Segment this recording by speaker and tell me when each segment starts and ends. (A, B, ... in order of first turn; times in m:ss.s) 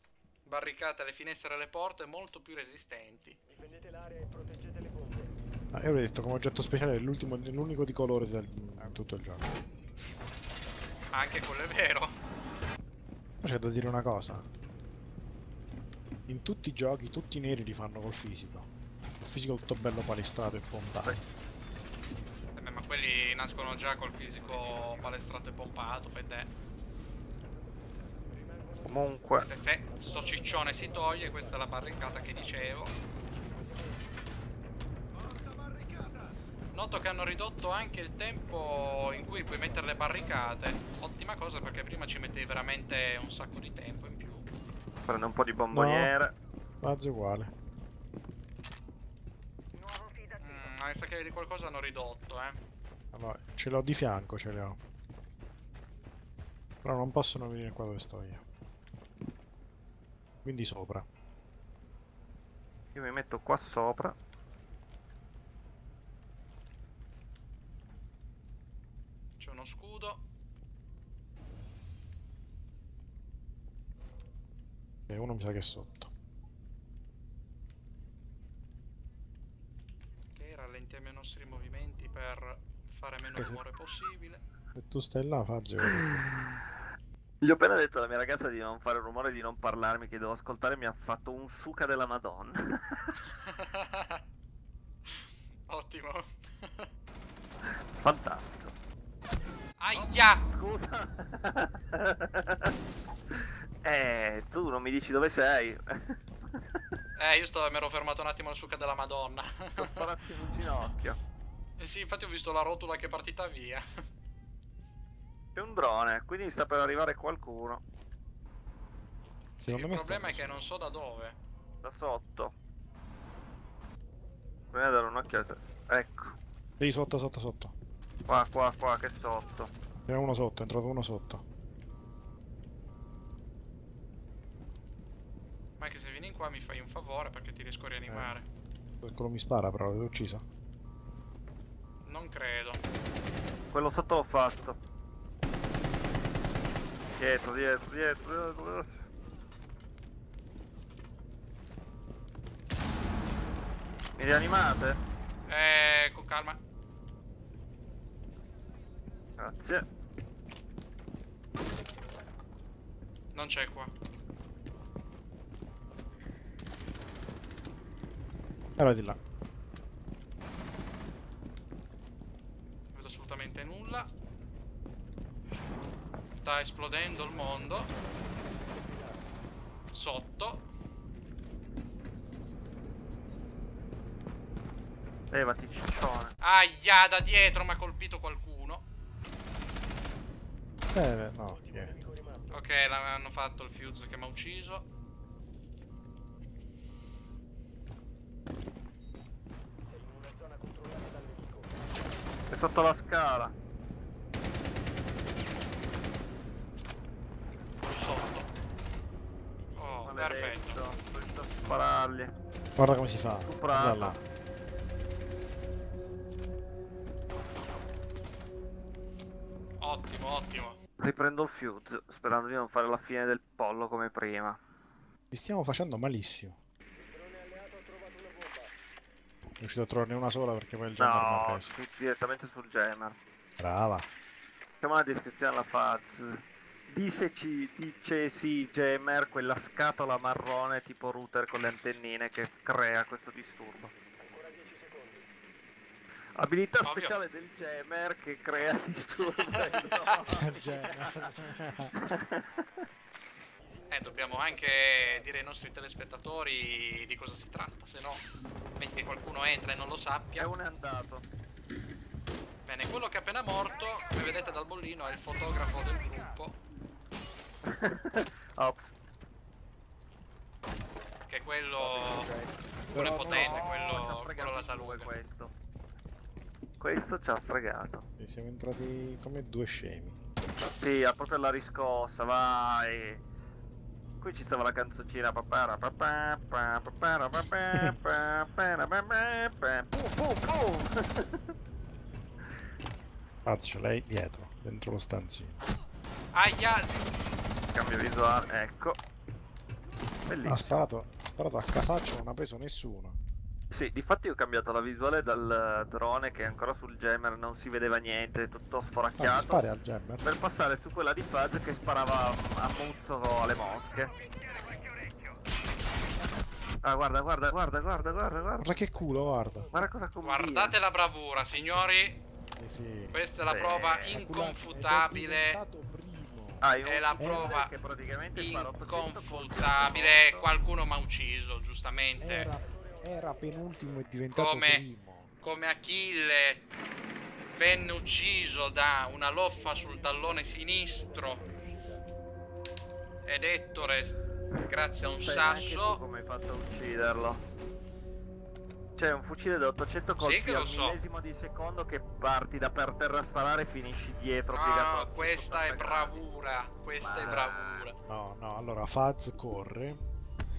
0:00.4-0:03.4 A
0:05.7-0:09.5 B
0:11.1-0:12.2 A
0:13.4-0:14.5 B
0:16.3-0:18.7 B
0:19.2-0:21.2 B
0:22.6-0:26.5 A
0:28.9-0:29.5 C
0:29.4-0:32.9 A
0:36.7-0:44.5 A
0:45.1-0:46.3 C
0:45.7-0:46.1 B
0:46.8-0:47.5 B
0:50.4-0:52.6 A
0:53.1-0:54.8 B
0:56.8-0:58.4 B
1:00.4-1:01.0 B
1:02.9-1:04.1 C
1:09.4-1:10.2 A
1:15.1-1:16.1 B
1:20.3-1:24.4 A
1:23.3-1:23.6 B
1:24.7-1:26.2 B
1:25.8-1:26.6 C
1:27.4-1:33.2 C
1:33.2-1:34.2 A
1:35.1-1:36.9 A
1:37.7-1:38.7 C
1:39.8-1:40.4 A
1:39.9-1:42.7 C
1:43.3-1:46.6 C
1:47.2-1:50.0 A
1:49.8-1:51.2 C
1:51.8-1:53.8 A
1:55.6-1:57.8 C
1:59.6-2:01.4 A
1:59.6-2:00.7 B
2:01.8-2:02.5 C
2:04.7-2:06.4 C
2:06.8-2:07.7 B
2:08.3-2:09.7 C
2:10.1-2:11.4 B
2:15.8-2:18.4 A
2:18.0-2:18.4 B
2:19.0-2:20.4 B
2:22.0-2:22.8 A
2:23.7-2:24.8 C
2:27.2-2:29.0 C
2:34.2-2:35.0 C
2:35.5-2:36.6 A
2:39.4-2:39.8 C
2:43.3-2:43.9 A
2:48.8-2:49.2 B
2:52.9-2:54.1 A
2:56.4-2:57.9 A
2:59.9-3:00.6 A
3:05.3-3:06.3 C
3:06.4-3:08.8 A
3:10.9-3:12.0 B
3:12.5-3:14.9 A
3:22.5-3:23.5 C
3:27.9-3:28.5 A
3:29.8-3:30.8 A
3:30.0-3:32.4 C
3:32.8-3:34.2 B
3:33.4-3:34.2 C
3:39.8-3:40.8 A
3:41.0-3:44.6 C
3:45.3-3:46.6 B
3:49.6-3:51.8 B
3:51.0-3:53.2 C
3:53.6-3:54.1 B
3:54.8-4:03.9 C
4:06.4-4:11.3 C
4:06.8-4:07.2 A
4:10.3-4:11.9 B
4:12.0-4:12.9 C
4:13.9-4:20.5 A
4:20.4-4:21.2 C
4:22.6-4:26.6 A
4:27.7-4:28.9 C
4:31.3-4:32.3 A
4:31.8-4:35.5 C
4:32.9-4:33.6 B
4:32.9-4:35.1 A
4:36.8-4:38.0 C
4:38.2-4:40.2 B
4:40.6-4:43.2 C
4:44.2-4:51.4 C
4:53.4-4:55.6 B
4:56.3-4:57.0 A
4:57.7-4:59.0 C
5:00.2-5:00.9 C
5:00.4-5:03.2 B
5:03.7-5:09.6 C
5:09.2-5:10.2 B
5:10.2-5:14.1 C
5:16.8-5:18.8 C
5:18.6-5:19.7 B
5:19.7-5:20.8 C
5:20.2-5:22.2 A
5:22.6-5:23.2 B
5:23.1-5:25.6 A
5:23.4-5:24.2 C
5:24.1-5:27.6 B
5:26.6-5:30.5 C
5:26.8-5:27.7 A
5:28.4-5:32.5 A
5:32.2-5:35.3 B
5:34.3-5:34.9 A
5:35.4-5:36.6 A
5:37.5-5:41.4 A
5:43.2-5:46.0 A
5:45.0-5:47.4 C
5:49.0-5:56.2 C
5:50.2-5:51.0 A
5:54.5-5:57.9 A
5:57.0-5:57.9 C
5:58.1-6:00.0 B